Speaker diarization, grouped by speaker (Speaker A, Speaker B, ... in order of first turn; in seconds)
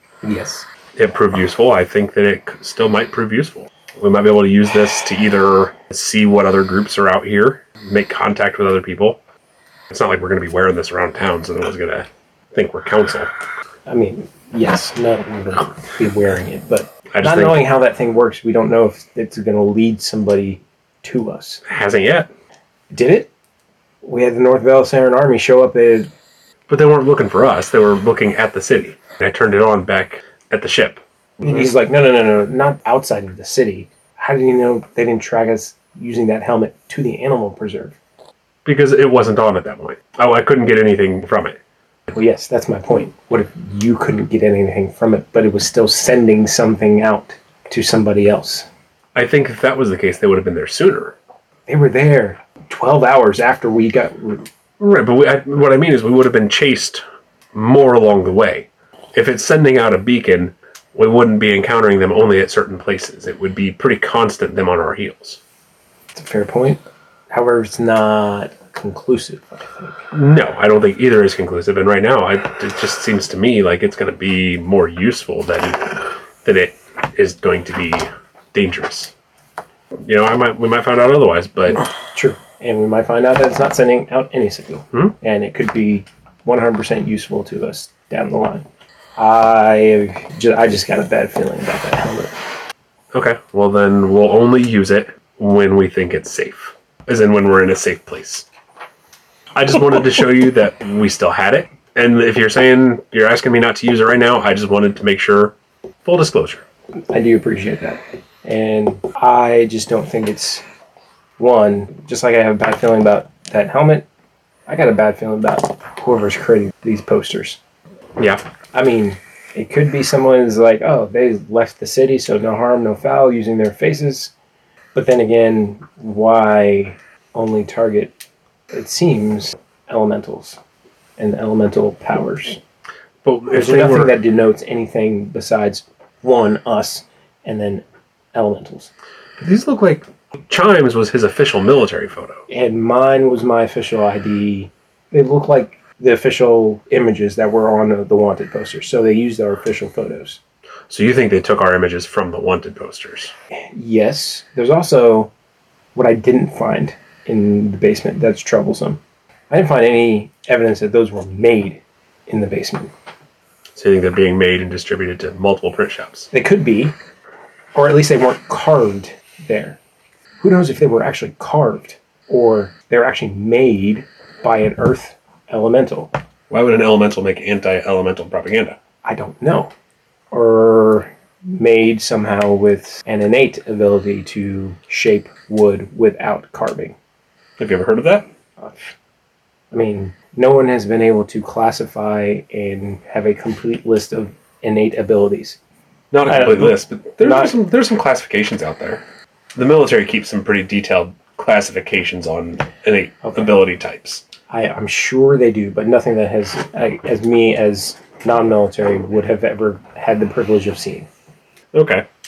Speaker A: 0.2-0.7, 13.9-21.6, 22.9-23.3, 24.0-26.1, 31.4-38.0, 42.1-48.7, 51.7-54.5, 66.1-70.0, 82.1-92.3, 107.1-110.6, 111.4-114.0, 114.7-117.6, 118.7-124.3, 124.9-128.1, 128.7-130.6, 131.2-132.6, 133.5-138.9, 142.5-150.4, 153.7-155.3, 155.9-162.9, 166.3-166.9, 167.7-169.8, 170.4-176.1, 179.0-179.7, 180.3-186.9, 188.6-188.9, 189.7-195.6, 196.2-197.5, 203.2-203.6, 204.5-211.1
Speaker B: 0.9-9.2, 9.9-13.3, 17.1-17.7, 21.7-22.3, 26.7-31.7, 38.6-41.6, 49.1-51.1, 54.8-57.0, 57.5-65.4, 70.1-79.1, 80.0-81.8, 93.1-98.4, 99.5-105.5, 106.0-106.6, 118.2-118.4, 133.2-134.2, 139.4-142.4, 150.9-153.3, 163.8-166.3, 176.5-178.8, 187.6-188.2, 196.1-199.0, 199.5-204.2, 211.7-212.0